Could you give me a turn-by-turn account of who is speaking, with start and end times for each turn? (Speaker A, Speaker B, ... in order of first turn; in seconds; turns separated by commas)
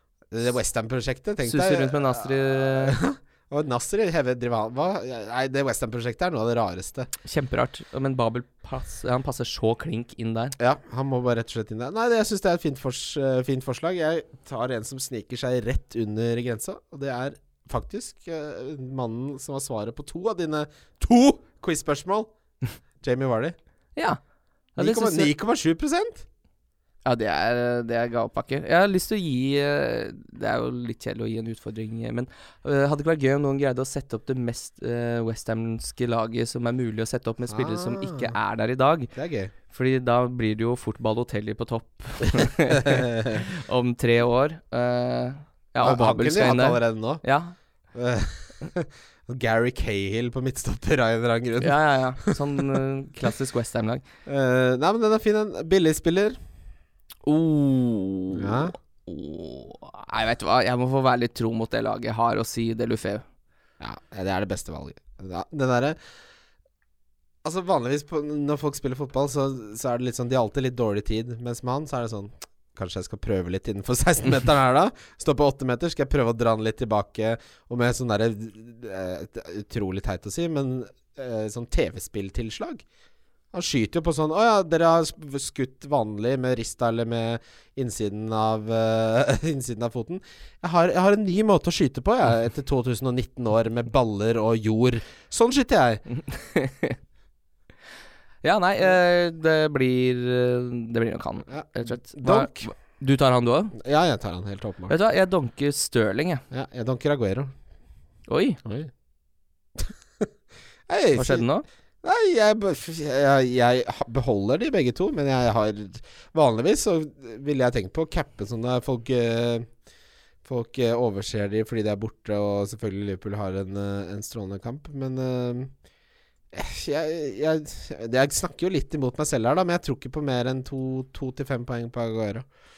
Speaker A: 0.3-7.1, Speaker B: 1.4-3.0, Speaker B: 7.2-10.6, Speaker A: 10.6-22.3, Speaker A: 23.0-23.6, Speaker B: 24.8-25.3, Speaker A: 24.8-26.2, Speaker B: 27.0-39.1, Speaker A: 37.5-38.4, Speaker A: 39.1-39.5, Speaker B: 39.7-47.5, Speaker A: 42.7-43.4, Speaker A: 45.8-47.2, Speaker A: 47.9-52.8, Speaker B: 51.6-54.0, Speaker A: 54.2-56.4, Speaker B: 57.2-63.2, Speaker A: 58.3-58.7, Speaker A: 63.8-66.0, Speaker A: 67.4-82.8, Speaker A: 83.5-96.0, Speaker B: 96.2-97.0, Speaker B: 98.4-103.7, Speaker A: 101.5-102.7, Speaker A: 103.7-104.9, Speaker B: 104.9-106.4, Speaker A: 106.5-107.5, Speaker B: 108.3-108.6, Speaker A: 108.6-108.9, Speaker A: 109.8-110.3, Speaker A: 110.9-111.5, Speaker B: 111.2-111.6, Speaker A: 112.0-119.7, Speaker A: 120.4-125.7, Speaker A: 126.5-132.4